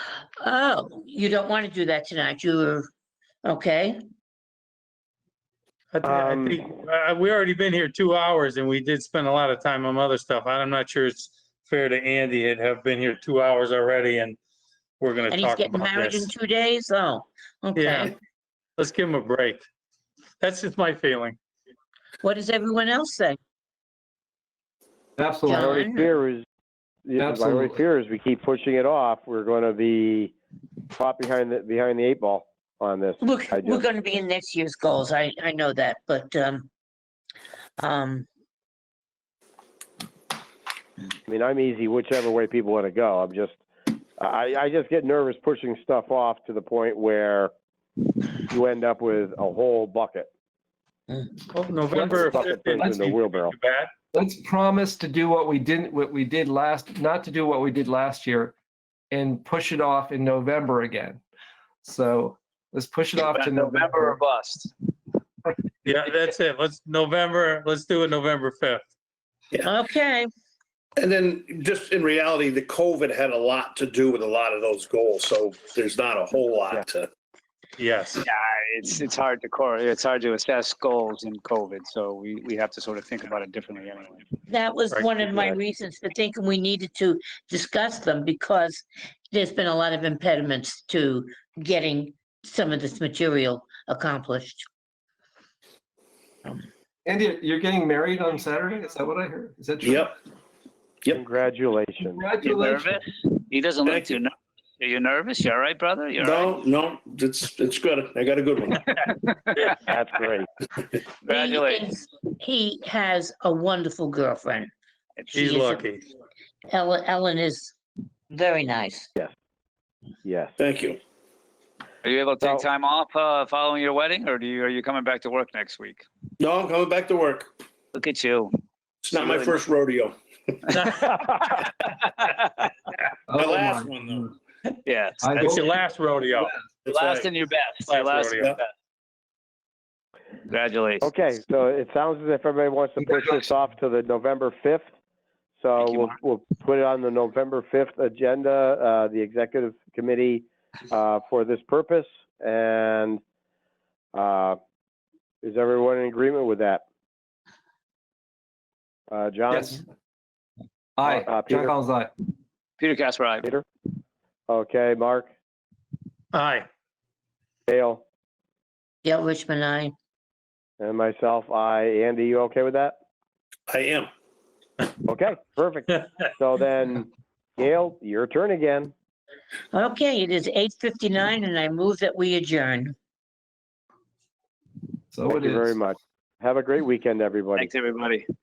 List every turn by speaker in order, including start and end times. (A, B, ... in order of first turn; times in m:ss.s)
0:00.4-0:02.9 A
0:03.4-0:04.0 A
0:05.9-0:14.4 B
0:06.0-0:06.7 C
0:15.0-0:16.3 B
0:15.3-0:18.1 A
0:17.8-0:18.1 B
0:18.8-0:19.6 B
0:20.4-0:21.4 B
0:22.2-0:23.4 A
0:25.2-0:25.7 D
0:25.4-0:26.2 A
0:25.5-0:26.4 C
0:27.0-0:30.3 C
0:27.2-0:27.8 D
0:30.9-0:33.8 C
0:33.2-0:36.7 A
0:37.8-0:38.2 A
0:41.3-0:43.6 C
0:44.2-0:47.5 C
0:48.4-0:50.3 C
0:51.5-0:53.9 B
0:51.9-0:53.5 C
0:54.1-0:58.5 D
0:59.1-1:01.2 D
1:01.8-1:04.2 D
1:03.2-1:04.7 E
1:05.8-1:08.8 B
1:09.6-1:10.3 A
1:11.0-1:17.1 F
1:17.8-1:18.2 B
1:18.2-1:24.2 E
1:24.5-1:34.6 A
1:25.3-1:25.6 C
1:37.0-1:40.0 D
1:39.8-1:40.1 F
1:41.1-1:42.2 C
1:42.0-1:43.0 D
1:42.4-1:46.6 E
1:43.8-1:44.2 F
1:46.2-1:48.9 F
1:49.5-1:49.8 E
1:49.8-1:50.5 C
1:51.2-1:51.8 E
1:51.3-1:54.7 A
1:55.3-1:55.9 A
1:55.3-1:56.0 B
1:56.7-1:57.7 A
1:58.3-1:59.1 A
2:00.2-2:00.5 C
2:00.6-2:01.0 F
2:02.0-2:06.0 E
2:06.4-2:07.5 F
2:07.9-2:08.5 E
2:09.0-2:10.6 F
2:09.1-2:09.6 E
2:10.7-2:11.3 B
2:10.9-2:12.5 E
2:13.3-2:14.3 D
2:13.3-2:14.3 F
2:14.8-2:15.6 E
2:15.2-2:15.8 D
2:15.4-2:16.5 B
2:16.8-2:17.3 F
2:16.9-2:18.7 E
2:17.9-2:18.5 B
2:20.5-2:21.0 E
2:21.0-2:24.9 C
2:23.0-2:23.4 D
2:25.6-2:33.2 C
2:25.8-2:26.1 E
2:34.1-2:34.6 C
2:35.4-2:36.8 C
2:39.1-2:39.8 C
2:39.5-2:39.8 D
2:41.0-2:42.1 D
2:41.0-2:41.8 C
2:42.8-2:43.5 E
2:44.5-2:45.3 C
2:46.3-2:46.7 B
2:47.7-2:48.0 C
2:49.0-2:49.9 A
2:50.8-2:53.0 C
2:53.7-2:54.1 F
2:55.0-2:58.9 C
2:59.7-3:02.9 A
3:05.1-3:05.7 D
3:05.2-3:07.7 C
3:07.6-3:08.2 E